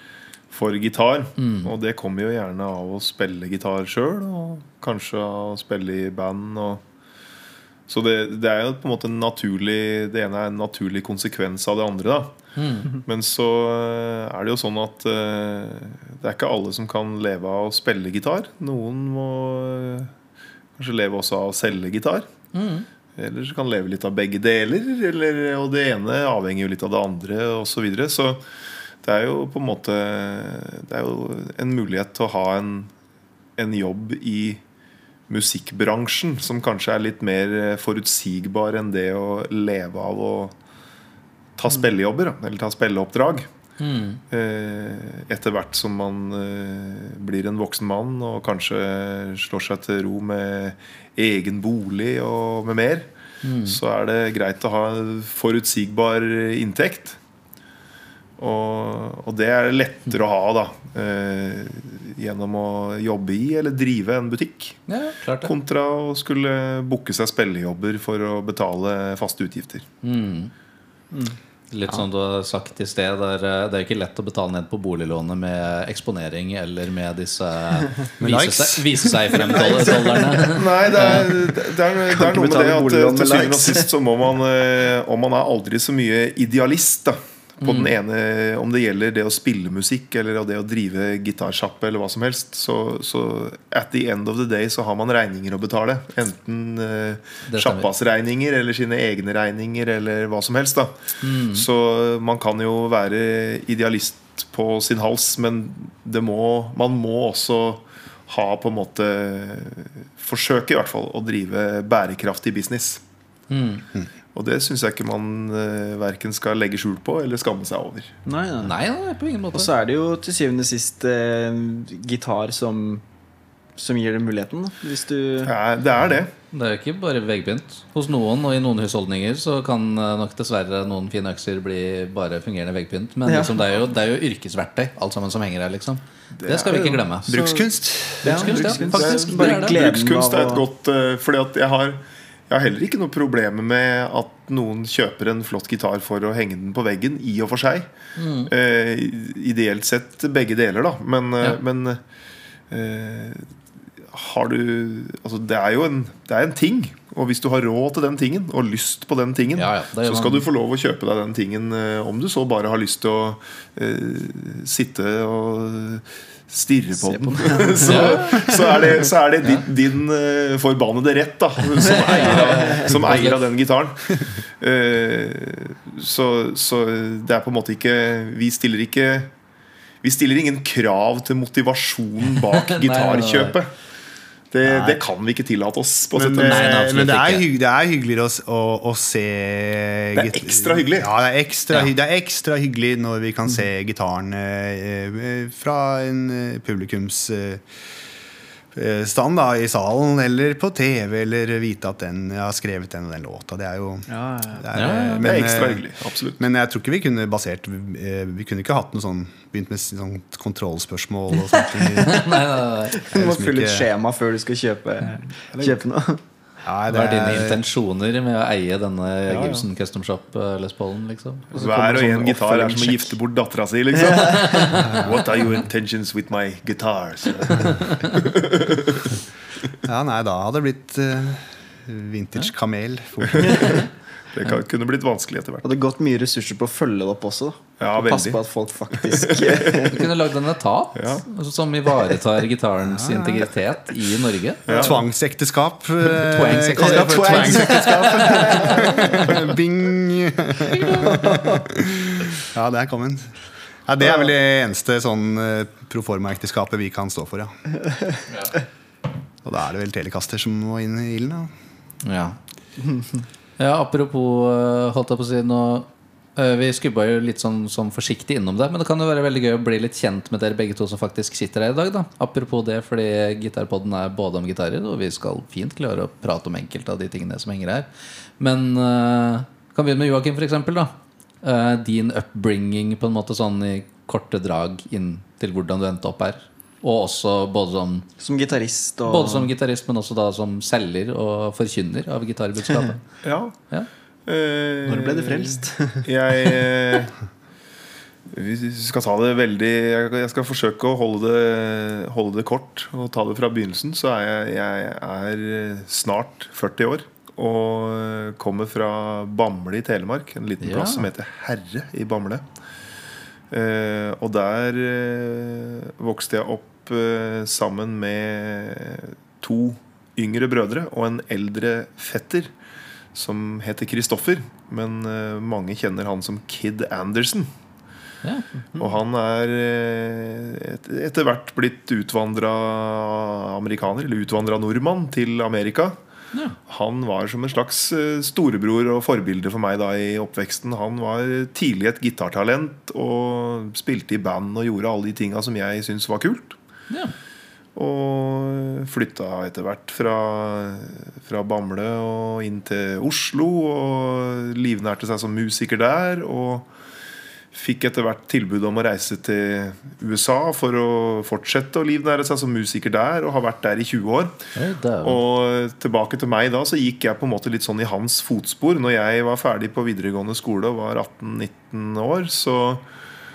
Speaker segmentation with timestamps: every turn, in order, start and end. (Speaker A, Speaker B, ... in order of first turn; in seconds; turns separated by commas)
Speaker A: 0.5-6.8, Speaker B: 1.4-1.7, Speaker A: 7.9-12.3, Speaker B: 12.6-12.9, Speaker A: 12.9-20.1, Speaker A: 20.8-22.3, Speaker B: 22.5-22.9, Speaker A: 23.2-28.4, Speaker A: 29.0-32.9, Speaker A: 33.6-34.6, Speaker A: 35.3-40.5, Speaker A: 41.6-43.5, Speaker B: 43.8-44.2, Speaker A: 44.3-53.1, Speaker B: 53.4-53.8, Speaker A: 53.7-57.2, Speaker A: 58.4-64.8, Speaker B: 64.9-65.5, Speaker A: 65.4-69.9, Speaker B: 70.0-70.5, Speaker C: 71.1-71.4, Speaker B: 71.7-81.3, Speaker D: 78.2-79.4, Speaker C: 79.4-81.5, Speaker A: 80.5-113.0, Speaker C: 82.0-83.9, Speaker B: 87.6-87.9, Speaker B: 97.5-97.9, Speaker B: 101.2-101.7, Speaker B: 113.5-113.8, Speaker A: 114.3-118.2, Speaker C: 118.3-118.8, Speaker B: 118.6-119.7, Speaker C: 119.5-123.0, Speaker C: 123.8-125.5, Speaker A: 125.4-126.3, Speaker B: 126.5-137.4, Speaker C: 133.3-133.6, Speaker A: 136.4-137.0, Speaker C: 136.7-137.7, Speaker D: 137.3-138.7, Speaker C: 138.2-140.7, Speaker B: 138.2-139.8, Speaker A: 138.8-147.9, Speaker B: 148.2-148.5, Speaker A: 148.5-152.0, Speaker A: 152.7-153.5, Speaker A: 154.1-179.3, Speaker B: 159.6-160.5, Speaker C: 167.0-168.2, Speaker B: 167.8-168.5, Speaker B: 171.8-173.4, Speaker C: 171.9-172.9, Speaker A: 180.0-183.7, Speaker B: 182.5-183.6, Speaker A: 184.5-186.7, Speaker D: 184.6-185.0, Speaker D: 186.2-197.7, Speaker B: 186.4-187.5, Speaker A: 190.2-191.1, Speaker D: 198.7-205.9, Speaker C: 204.1-204.8, Speaker B: 204.7-205.3, Speaker A: 205.2-206.4, Speaker D: 206.4-212.3, Speaker B: 212.0-213.0, Speaker C: 212.9-216.2, Speaker D: 213.1-213.9, Speaker A: 215.5-215.8, Speaker D: 216.6-217.6, Speaker B: 216.9-221.6, Speaker C: 219.3-219.6, Speaker A: 221.5-229.2, Speaker C: 221.5-223.2, Speaker C: 223.9-224.8, Speaker B: 224.4-225.3, Speaker B: 227.6-228.2, Speaker D: 229.8-233.8, Speaker A: 233.2-233.6, Speaker C: 233.4-233.8, Speaker A: 234.3-235.8, Speaker C: 235.6-240.0, Speaker A: 237.8-239.9, Speaker B: 239.9-244.6, Speaker A: 240.9-241.2, Speaker D: 242.8-243.5, Speaker A: 244.7-245.0, Speaker D: 244.7-253.3, Speaker B: 246.1-248.9, Speaker C: 246.8-249.4, Speaker B: 250.8-251.1, Speaker C: 251.0-251.7, Speaker D: 253.9-257.5, Speaker D: 259.4-261.5, Speaker B: 262.0-262.4, Speaker B: 263.6-288.1, Speaker C: 288.2-289.5, Speaker B: 289.1-293.0, Speaker A: 293.2-293.6, Speaker A: 294.3-297.2, Speaker C: 294.9-297.0, Speaker A: 298.3-312.5, Speaker B: 310.6-311.1, Speaker A: 313.5-322.5, Speaker A: 323.1-327.5, Speaker A: 328.8-336.0, Speaker A: 336.7-346.6, Speaker A: 347.8-356.7, Speaker A: 357.5-364.4, Speaker B: 364.6-365.2, Speaker A: 365.0-372.9